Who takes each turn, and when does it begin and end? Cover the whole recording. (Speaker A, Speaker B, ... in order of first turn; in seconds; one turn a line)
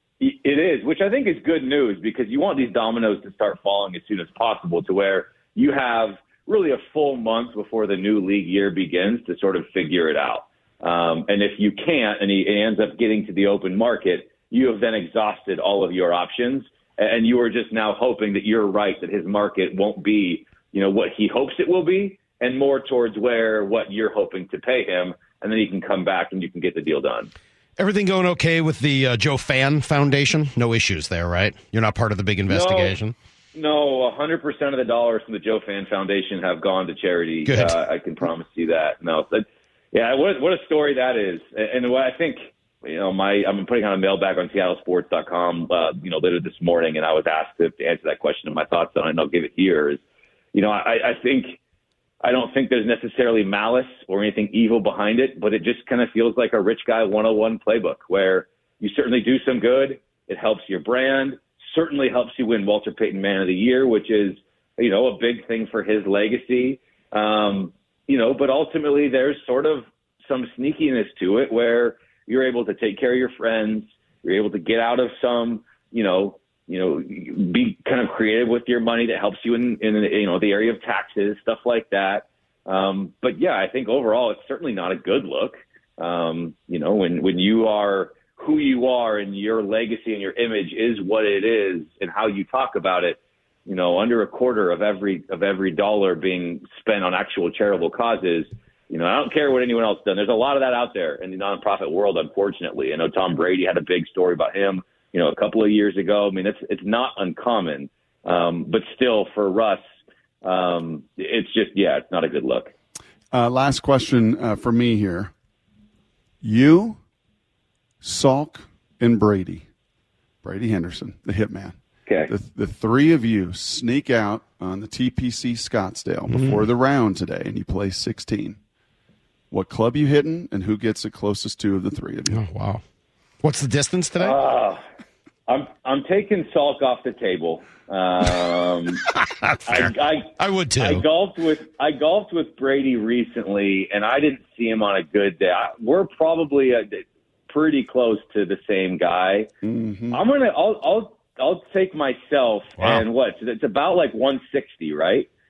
Speaker A: 0.2-27.3
Speaker B: 27.8-33.1
Speaker A: 32.5-33.0
Speaker A: 33.5-50.0
Speaker B: 37.5-37.7
Speaker A: 50.5-51.6
Speaker A: 52.2-109.8
Speaker A: 110.4-112.7
Speaker C: 113.3-115.3
Speaker C: 116.4-117.0
Speaker C: 118.0-119.7
Speaker C: 120.4-121.8
Speaker A: 122.1-122.3
Speaker C: 122.3-128.6
Speaker B: 126.3-126.6
Speaker C: 129.5-132.4
Speaker B: 132.3-132.8
Speaker B: 133.4-134.4
Speaker A: 134.2-134.8
Speaker A: 135.5-139.0
Speaker B: 139.1-141.0
Speaker A: 139.7-149.5
Speaker C: 149.6-150.2
Speaker A: 150.1-155.3
Speaker B: 152.8-153.0